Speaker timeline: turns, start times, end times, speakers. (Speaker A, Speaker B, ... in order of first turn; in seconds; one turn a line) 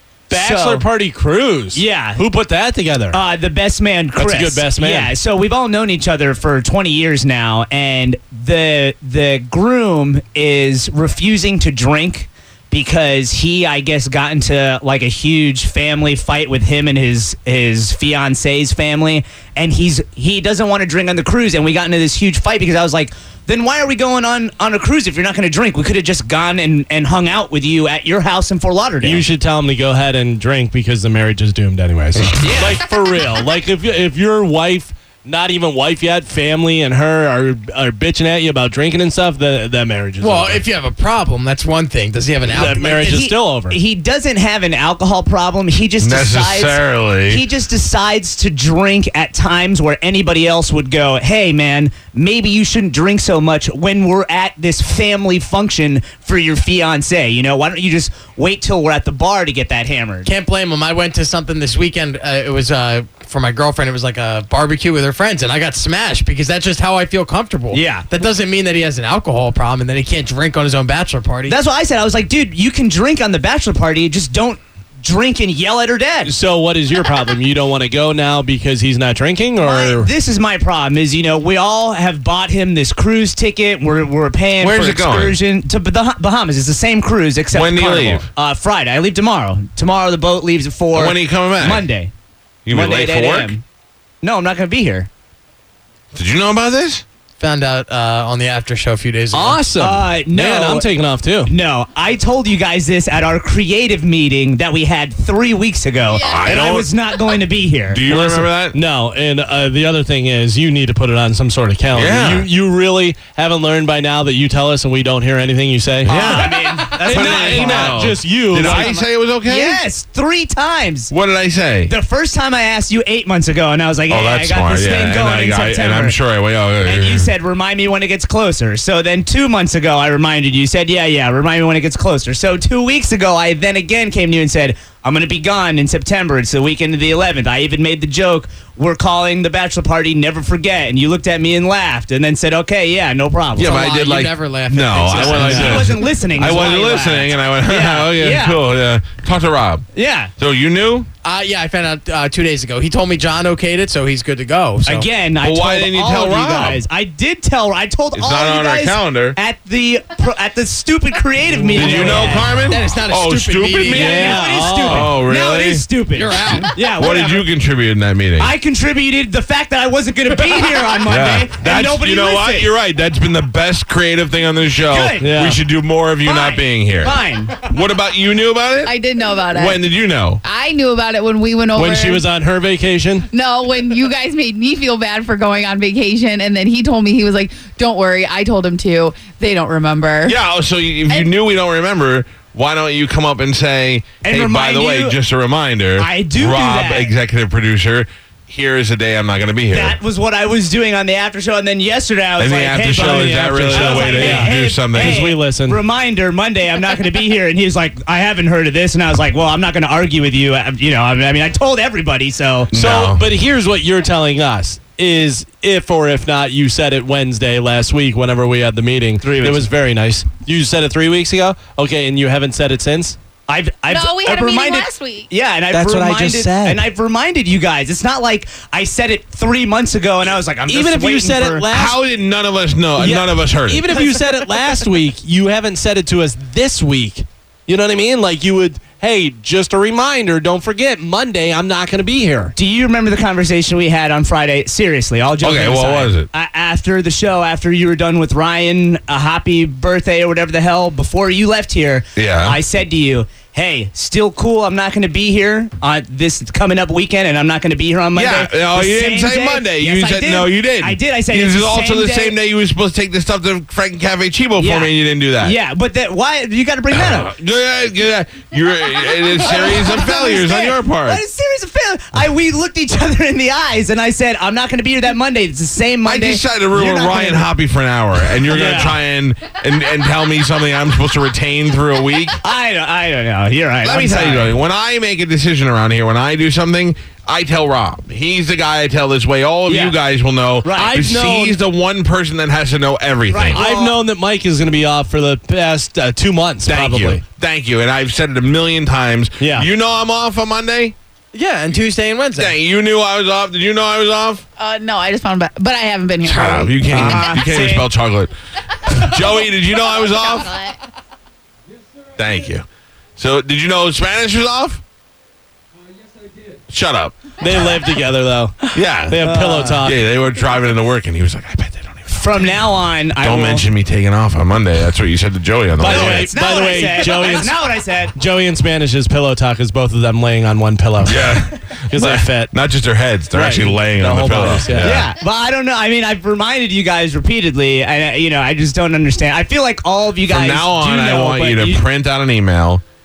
Speaker A: 0.3-3.2
Speaker B: 0.3-0.8
Speaker B: 1.7-2.2
Speaker B: 3.1-29.2
Speaker A: 4.2-5.1
Speaker A: 29.0-40.6
Speaker B: 32.4-32.8
Speaker C: 40.2-43.2
Speaker A: 42.5-43.8
Speaker B: 43.0-60.3
Speaker D: 46.0-47.4
Speaker C: 60.2-71.5
Speaker B: 67.7-68.1
Speaker B: 71.5-76.3
Speaker A: 76.2-80.1
Speaker B: 79.6-92.1
Speaker D: 84.6-85.3
Speaker D: 87.5-88.3
Speaker D: 90.9-91.8
Speaker D: 92.7-93.5
Speaker B: 92.7-93.6
Speaker B: 94.2-95.1
Speaker D: 96.1-97.0
Speaker C: 97.4-99.7
Speaker A: 99.3-101.5
Speaker B: 99.8-100.9
Speaker B: 101.5-108.0
Speaker E: 106.1-106.6
Speaker D: 106.3-106.9
Speaker D: 107.9-108.8
Speaker A: 108.1-118.9
Speaker D: 111.9-112.5
Speaker D: 116.0-119.8
Speaker B: 116.0-121.1
Speaker D: 121.1-121.9
Speaker B: 121.9-126.2
Speaker D: 124.1-127.3
Speaker B: 126.8-143.8
Speaker C: 143.6-146.2
Speaker D: 143.6-149.8
Speaker B: 145.2-148.6
Speaker B: 149.9-150.3
Speaker D: 150.4-151.1
Speaker C: 151.2-155.1
Speaker B: 154.8-162.6
Speaker D: 155.4-156.8
Speaker D: 158.1-159.4
Speaker D: 161.7-165.9
Speaker C: 161.9-164.4
Speaker B: 163.9-167.4
Speaker A: 163.9-165.2
Speaker C: 166.1-167.1
Speaker D: 166.9-168.5
Speaker B: 168.4-172.7
Speaker D: 171.0-178.9
Speaker B: 174.8-175.4
Speaker A: 175.2-175.6
Speaker E: 176.2-176.6
Speaker B: 177.0-177.7
Speaker E: 178.8-179.8
Speaker D: 179.5-180.4
Speaker E: 180.4-182.2
Speaker A: 181.7-183.3
Speaker E: 183.3-190.4
Speaker D: 190.2-200.0
Speaker E: 191.1-191.3
Speaker B: 194.2-195.2
Speaker B: 196.0-197.1
Speaker B: 199.7-212.7
Speaker D: 202.4-205.2
Speaker A: 203.1-205.8
Speaker D: 212.7-213.2
Speaker A: 212.7-223.2
Speaker B: 219.2-219.7
Speaker B: 223.5-231.7
Speaker E: 223.9-225.3
Speaker A: 225.7-226.8
Speaker A: 230.7-232.0
Speaker D: 231.7-233.9
Speaker A: 233.0-242.5
Speaker B: 233.0-234.7
Speaker B: 242.5-262.3
Speaker D: 245.4-246.3
Speaker D: 252.2-252.6
Speaker D: 258.1-265.6
Speaker B: 264.6-267.3
Speaker D: 266.9-271.2
Speaker B: 269.3-277.5
Speaker D: 276.0-282.4
Speaker B: 278.5-279.0
Speaker A: 278.5-278.9
Speaker B: 282.4-284.6
Speaker D: 283.8-293.6
Speaker B: 289.6-290.0
Speaker B: 290.6-291.0
Speaker A: 290.8-291.6
Speaker B: 293.3-294.0
Speaker A: 293.5-297.2
Speaker D: 296.6-300.9
Speaker A: 299.4-299.7
Speaker C: 301.3-302.6
Speaker D: 302.4-304.4
Speaker E: 304.6-307.4
Speaker D: 306.2-308.3
Speaker B: 306.8-307.9
Speaker D: 308.9-310.5
Speaker E: 309.8-310.8
Speaker D: 312.2-312.6
Speaker D: 313.2-314.8
Speaker D: 316.7-317.3
Speaker A: 317.4-320.0
Speaker D: 318.7-319.2
Speaker B: 319.2-319.8
Speaker D: 319.8-322.6
Speaker B: 322.1-323.7
Speaker D: 323.2-326.3
Speaker A: 325.8-327.6
Speaker B: 325.9-328.1
Speaker A: 328.1-332.5
Speaker D: 331.0-335.1
Speaker A: 333.3-335.1
Speaker B: 334.7-341.8
Speaker D: 340.2-342.8